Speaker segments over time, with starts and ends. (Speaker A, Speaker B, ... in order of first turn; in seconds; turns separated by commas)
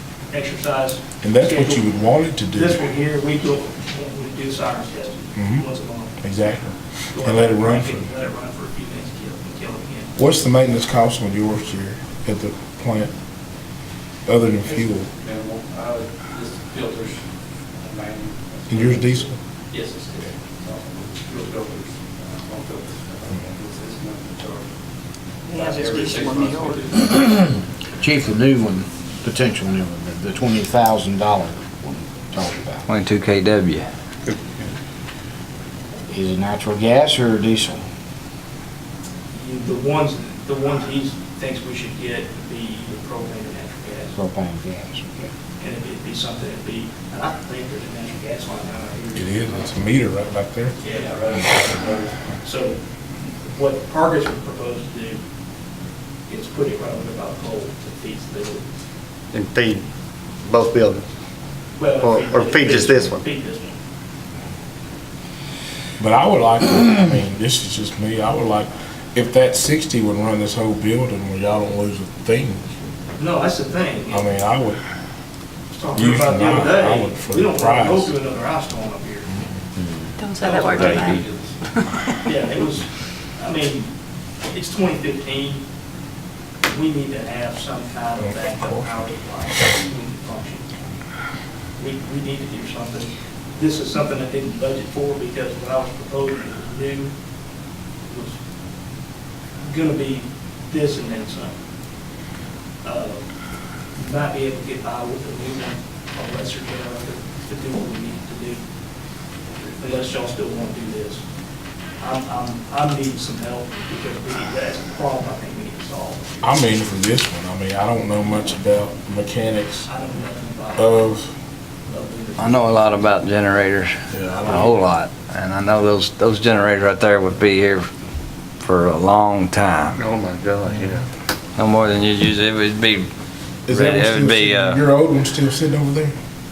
Speaker A: 0.3-1.8, Speaker B: 1.2-2.9, Speaker A: 2.5-6.6, Speaker B: 5.4-5.7, Speaker B: 6.2-8.1, Speaker A: 7.1-10.1, Speaker B: 10.2-13.1, Speaker B: 14.3-15.1, Speaker C: 14.7-17.2, Speaker C: 17.8-24.7, Speaker B: 18.7-19.4, Speaker D: 25.5-26.9, Speaker C: 25.5-27.2, Speaker E: 28.0-32.8, Speaker F: 32.9-33.9, Speaker E: 36.1-37.9, Speaker A: 39.3-44.2, Speaker E: 44.1-45.3, Speaker A: 45.6-49.7, Speaker B: 49.1-50.8, Speaker A: 50.8-51.2, Speaker C: 50.8-52.2, Speaker A: 52.4-52.8, Speaker A: 53.4-55.2, Speaker A: 56.3-58.7, Speaker G: 59.3-59.8, Speaker G: 60.4-61.0, Speaker A: 61.8-63.8, Speaker G: 62.0-63.2, Speaker B: 66.0-72.7, Speaker A: 73.2-74.3, Speaker B: 74.1-74.8, Speaker A: 75.7-79.3, Speaker B: 76.0-78.1, Speaker D: 80.2-81.2, Speaker C: 80.4-81.6, Speaker A: 80.4-81.2, Speaker A: 82.2-83.9, Speaker A: 84.5-85.6, Speaker A: 86.7-90.7, Speaker B: 88.2-88.8, Speaker A: 91.8-97.1, Speaker A: 98.1-98.4, Speaker A: 99.7-101.5, Speaker A: 102.8-103.3, Speaker A: 104.0-108.6, Speaker A: 109.8-111.2, Speaker A: 112.0-116.3, Speaker B: 116.4-119.9, Speaker A: 119.9-121.0, Speaker B: 120.8-121.3, Speaker A: 121.9-123.1, Speaker F: 122.4-127.9, Speaker B: 124.1-124.8, Speaker F: 128.6-130.0, Speaker G: 130.0-131.1, Speaker F: 131.6-133.1, Speaker B: 133.7-136.2, Speaker F: 133.7-134.8